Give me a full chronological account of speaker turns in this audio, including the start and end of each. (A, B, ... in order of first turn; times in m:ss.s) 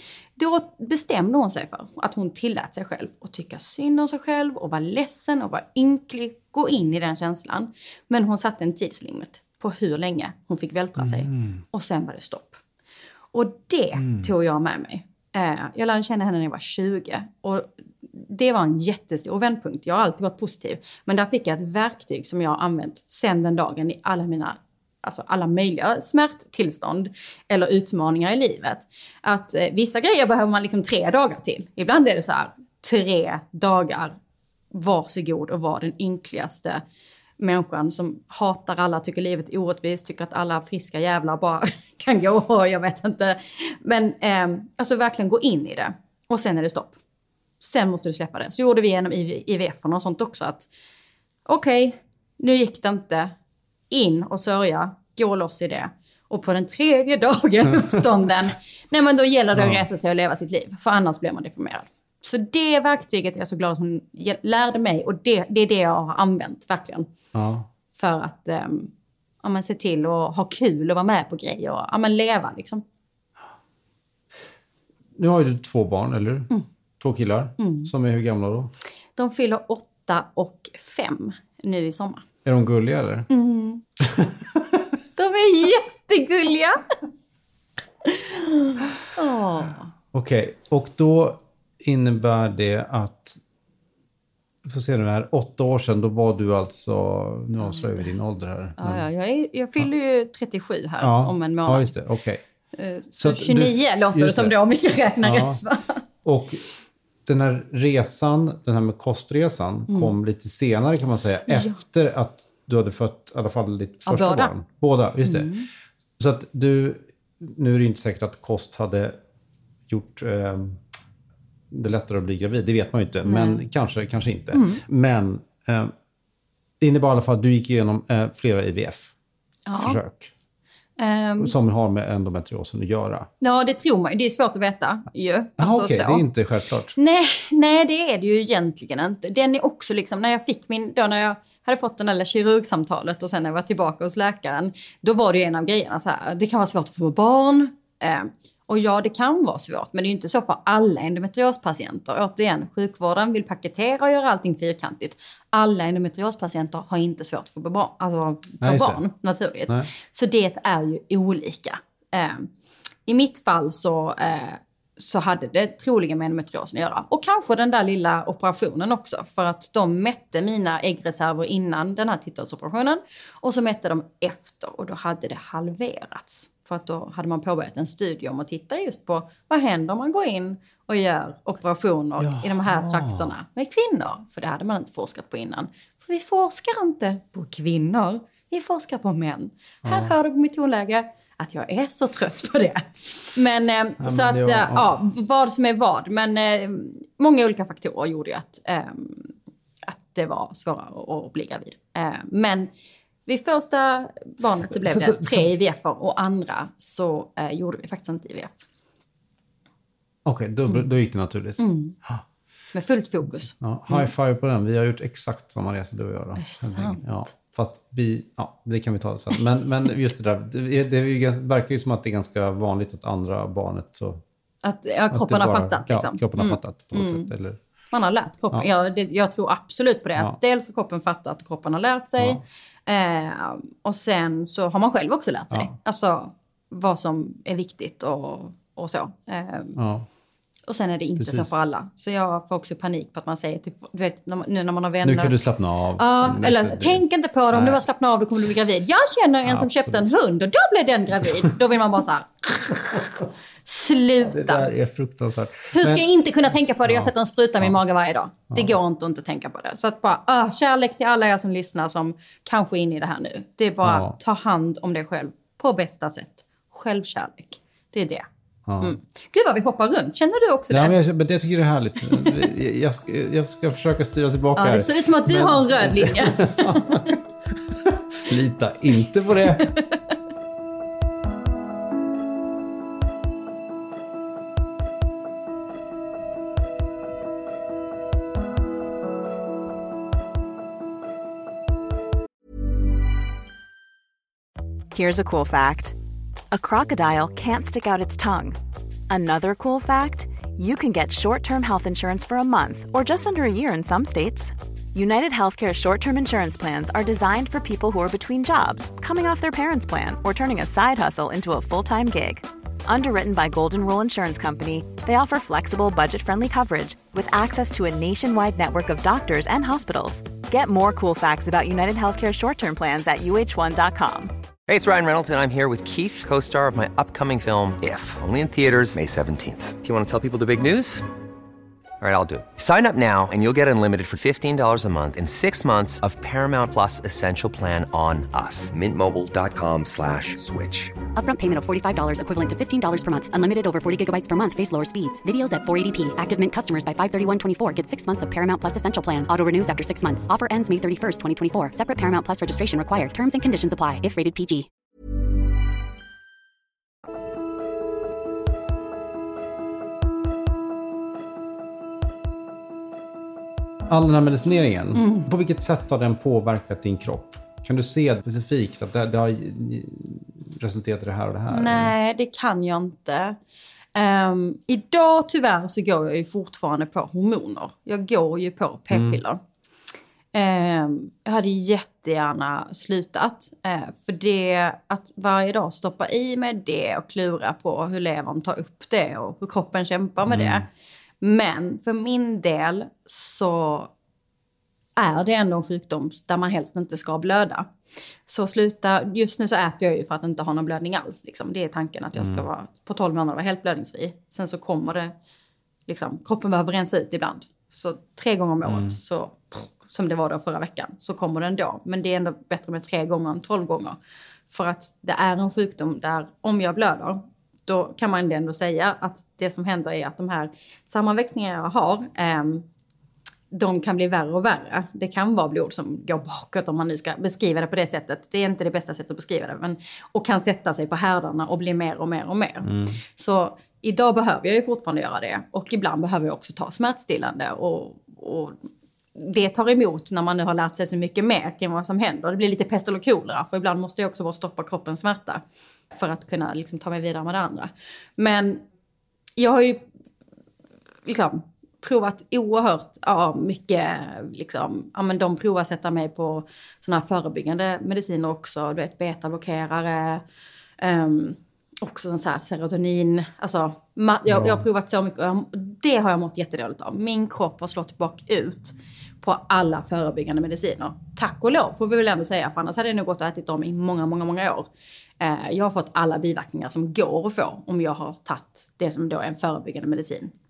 0:00.4-0:12.6 A
0:11.0-0:11.6 B
0:13.3-0:34.2 A
0:14.0-0:14.3 B
0:34.7-0:36.8 A
0:37.4-0:46.9 A
0:47.6-0:50.7 A
0:51.5-0:53.3 A
0:53.9-1:07.1 A
0:59.6-0:59.8 B
1:07.3-1:07.7 B
1:07.9-1:08.9 A
1:09.4-1:12.8 A
1:15.2-1:18.7 B
1:17.6-1:17.9 A
1:19.2-1:22.2 A
1:22.4-1:23.3 B
1:23.3-1:23.8 A
1:24.0-1:24.8 B
1:25.2-1:26.8 A
1:28.0-1:29.9 A
1:30.1-1:33.4 B
1:34.6-1:39.0 B
1:37.6-1:38.1 A
1:38.8-1:41.9 A
1:41.0-1:42.4 B
1:42.8-1:46.0 A
1:43.2-1:44.5 B
1:45.2-1:45.6 B
1:46.2-1:46.6 B
1:47.3-1:55.5 B
1:49.9-1:50.1 A
1:51.5-1:51.8 A
1:54.1-1:54.5 A
1:55.2-1:55.7 A
1:56.2-1:59.2 B
1:59.9-2:00.8 B
2:01.7-2:05.9 B
2:03.3-2:03.6 A
2:04.5-2:04.8 A
2:06.8-2:09.1 B
2:09.7-2:10.0 A
2:09.8-2:10.3 B
2:11.0-2:11.5 A
2:11.4-2:13.3 B
2:13.4-2:16.3 A
2:15.6-2:17.0 B
2:17.0-2:42.5 A
2:38.6-2:39.0 B
2:43.1-3:19.3 A
3:02.2-3:03.3 B
3:09.8-3:10.1 B
3:14.0-3:15.0 B
3:19.8-3:22.7 A
3:23.3-3:28.6 A
3:24.7-3:25.5 B
3:30.2-3:32.2 B
3:31.6-3:32.0 A
3:32.7-3:34.1 A
3:33.6-3:44.2 B
3:36.4-3:37.0 A
3:44.6-3:47.3 A
3:45.1-3:47.6 B
3:47.9-3:59.8 A
3:59.8-4:00.1 B
4:00.7-4:05.4 A
4:01.2-4:01.6 B
4:05.0-4:07.8 B
4:06.0-4:14.7 A
4:09.4-4:10.1 B
4:14.2-4:16.1 B
4:15.7-4:28.2 A
4:16.8-4:17.8 B
4:18.5-4:18.8 B
4:23.8-4:24.2 B
4:28.7-4:29.0 B
4:28.8-4:31.0 A
4:30.7-4:39.7 B
4:34.6-4:37.1 A
4:54.9-4:56.0 C
4:56.5-5:24.3 C
5:24.7-5:31.1 D
5:32.0-5:41.0 D
5:41.2-5:54.7 E
6:03.9-6:11.9 B
6:05.0-6:05.3 A
6:11.5-6:13.4 A
6:14.0-6:19.4 A
6:18.9-6:19.2 B
6:20.3-6:30.7 A
6:30.2-6:30.7 B
6:31.2-6:33.9 A
6:35.0-6:37.7 A
6:38.3-6:45.1 A
6:42.2-6:42.5 B
6:45.9-6:54.0 A
6:48.6-6:49.0 B
6:54.5-7:02.6 A
7:03.5-7:18.6 A
7:12.6-7:13.0 B
7:19.2-7:25.4 A
7:25.9-7:28.6 A
7:29.4-7:29.8 A
7:31.1-7:40.2 A
7:40.8-7:54.7 A
7:44.3-7:44.6 B
7:55.2-8:00.3 A